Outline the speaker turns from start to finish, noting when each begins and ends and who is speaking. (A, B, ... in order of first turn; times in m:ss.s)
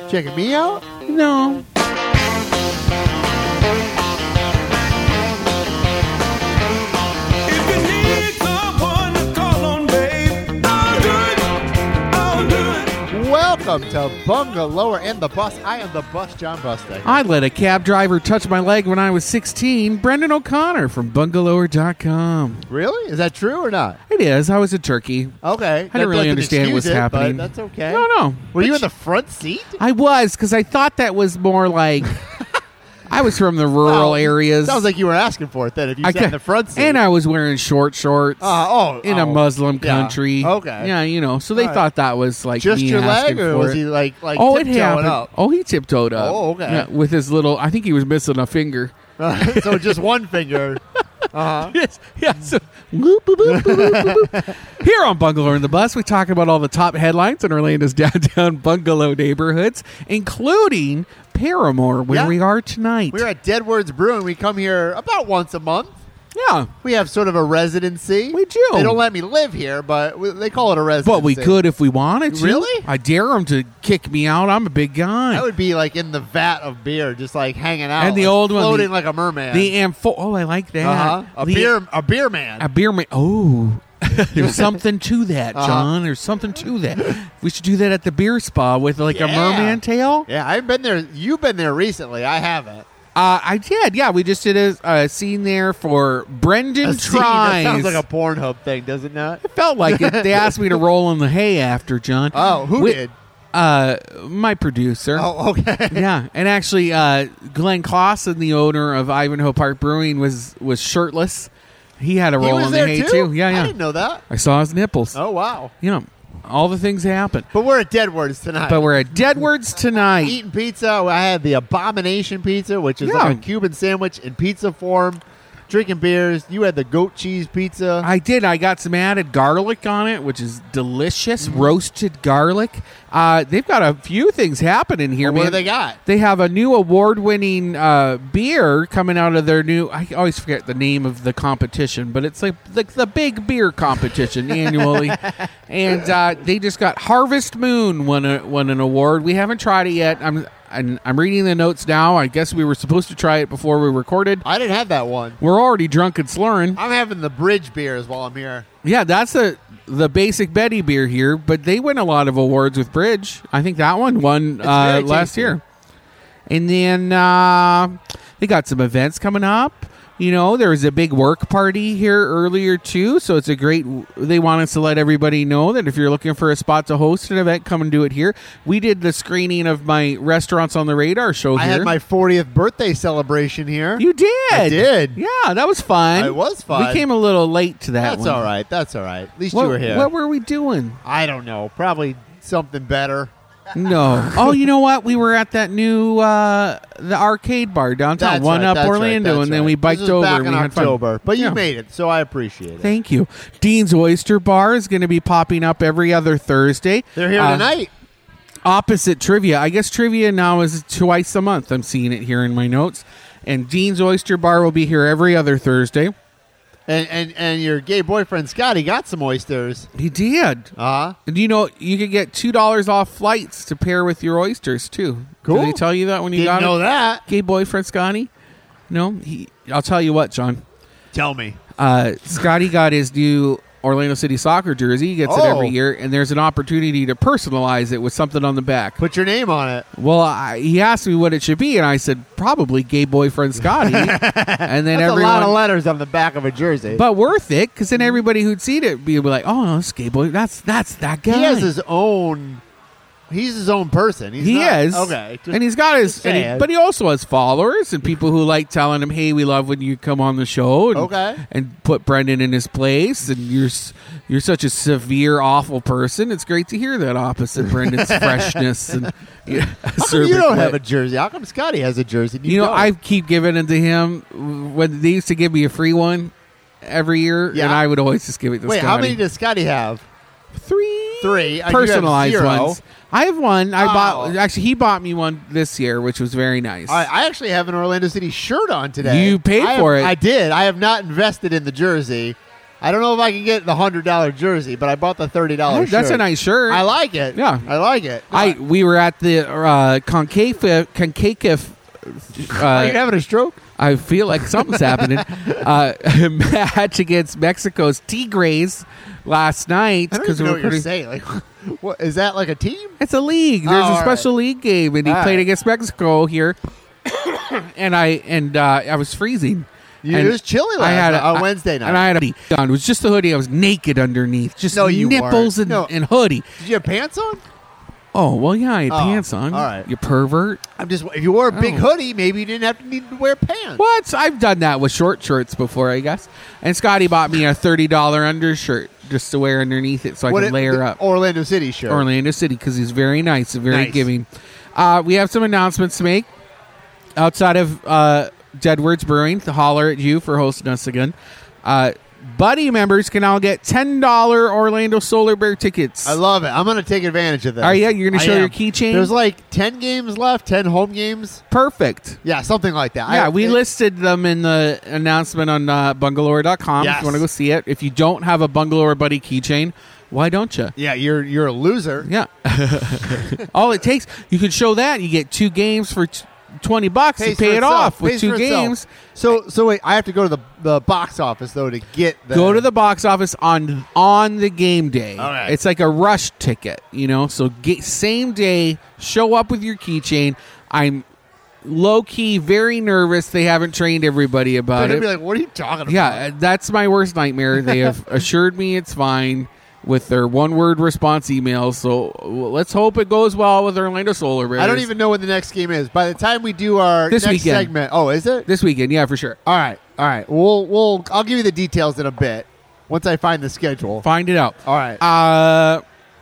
0:00.1-0:00.8 A
0:01.1-0:01.6 B
0:07.4-0:13.0 C
0:13.1-0:17.2 A
0:17.0-0:22.7 B
0:22.7-0:24.0 A
0:24.1-0:25.4 B
0:25.4-0:29.8 A
0:25.9-0:28.8 B
0:29.8-0:32.2 B
0:33.1-0:34.8 B
0:33.8-0:37.0 A
0:36.0-0:43.8 B
0:38.4-0:40.9 A
0:41.6-0:41.8 A
0:42.6-0:45.3 A
0:44.3-0:50.0 B
0:46.2-0:46.9 A
0:49.2-0:50.8 A
0:51.3-0:51.7 A
0:51.7-1:03.2 B
0:53.4-0:54.6 A
1:02.1-1:02.4 A
1:03.1-1:06.0 A
1:06.3-1:06.7 B
1:06.8-1:11.6 A
1:08.3-1:09.0 B
1:11.0-1:15.5 B
1:12.3-1:12.9 A
1:15.3-1:19.7 A
1:18.0-1:18.9 B
1:19.5-1:21.8 B
1:20.8-1:22.6 A
1:22.6-1:30.3 B
1:24.4-1:24.8 A
1:25.6-1:25.9 A
1:29.1-1:32.9 A
1:33.1-1:38.0 B
1:36.8-1:40.8 A
1:39.4-1:43.0 B
1:42.3-1:43.1 A
1:43.5-1:45.3 B
1:45.1-1:46.0 A
1:45.9-1:53.8 B
1:52.4-1:54.2 A
1:54.3-1:55.2 B
1:55.1-1:55.7 A
1:55.8-1:57.5 B
1:57.5-1:59.4 A
1:58.7-2:00.4 B
2:00.2-2:08.1 A
2:03.0-2:03.4 B
2:08.0-2:34.4 B
2:11.4-2:11.8 A
2:15.2-2:16.0 A
2:24.5-2:25.3 A
2:34.4-2:35.4 A
2:35.4-2:36.8 B
2:36.8-2:38.6 A
2:38.8-2:45.6 B
2:44.6-2:45.6 A
2:46.5-3:01.9 B
3:01.6-3:05.2 A
3:04.0-3:08.5 B
3:06.2-3:07.0 A
3:08.0-3:10.1 A
3:09.5-3:11.0 B
3:11.0-3:13.3 A
3:13.7-3:21.6 B
3:18.2-3:22.9 A
3:22.8-3:27.7 B
3:27.2-3:27.9 A
3:28.6-3:36.1 B
3:36.9-3:39.9 A
3:40.0-3:40.7 B
3:40.8-3:41.2 A
3:41.3-3:48.3 B
3:45.4-3:45.8 A
3:46.4-3:47.2 A
3:48.9-3:50.6 B
3:51.1-3:51.6 A
3:51.8-3:59.0 B
3:55.2-3:55.7 A
3:59.0-3:59.9 A
4:00.0-4:05.6 B
4:03.6-4:07.0 A
4:06.9-4:11.7 B
4:11.3-4:12.6 A
4:13.3-4:16.7 A
4:14.4-4:30.8 B
4:20.9-4:21.4 A
4:27.6-4:28.6 A
4:29.5-4:32.9 A
4:32.5-4:36.3 B
4:36.8-4:39.2 B
4:37.5-4:37.8 A
4:38.7-4:40.0 A
4:40.5-4:47.1 B
4:41.2-4:42.8 A
4:43.8-4:44.4 A
4:46.9-4:58.6 A
4:49.0-4:50.1 B
4:55.7-4:57.7 B
4:58.3-5:03.0 B
5:02.5-5:03.6 A
5:03.8-5:10.9 B
5:04.6-5:05.6 A
5:10.1-5:13.0 A
5:13.0-5:16.6 B
5:13.6-5:14.3 A
5:15.0-5:15.4 A
5:17.1-5:26.4 B
5:20.0-5:22.0 A
5:24.7-5:25.9 A
5:26.6-5:27.4 A
5:28.1-5:30.6 B
5:28.9-5:29.9 A
5:30.8-5:33.8 A
5:31.5-5:31.8 B
5:33.8-5:41.0 B
5:40.3-5:42.1 A
5:41.9-5:46.3 B
5:43.7-5:44.1 A
5:47.2-5:56.2 B
5:56.0-6:01.4 A
5:57.6-5:59.1 B
6:01.5-6:02.2 B
6:02.2-6:03.6 A
6:03.1-6:10.7 B
6:06.8-6:07.2 A
6:10.8-6:12.1 A
6:12.0-6:18.9 B
6:17.2-6:22.6 A
6:22.3-6:31.0 B
6:25.2-6:25.6 A
6:31.6-6:35.1 B
6:34.8-6:36.2 A
6:35.9-6:44.9 B
6:44.6-6:48.5 A
6:47.1-6:47.7 B
6:48.5-6:49.4 B
6:49.5-6:54.0 A
6:54.0-6:55.8 B
6:54.6-6:55.0 A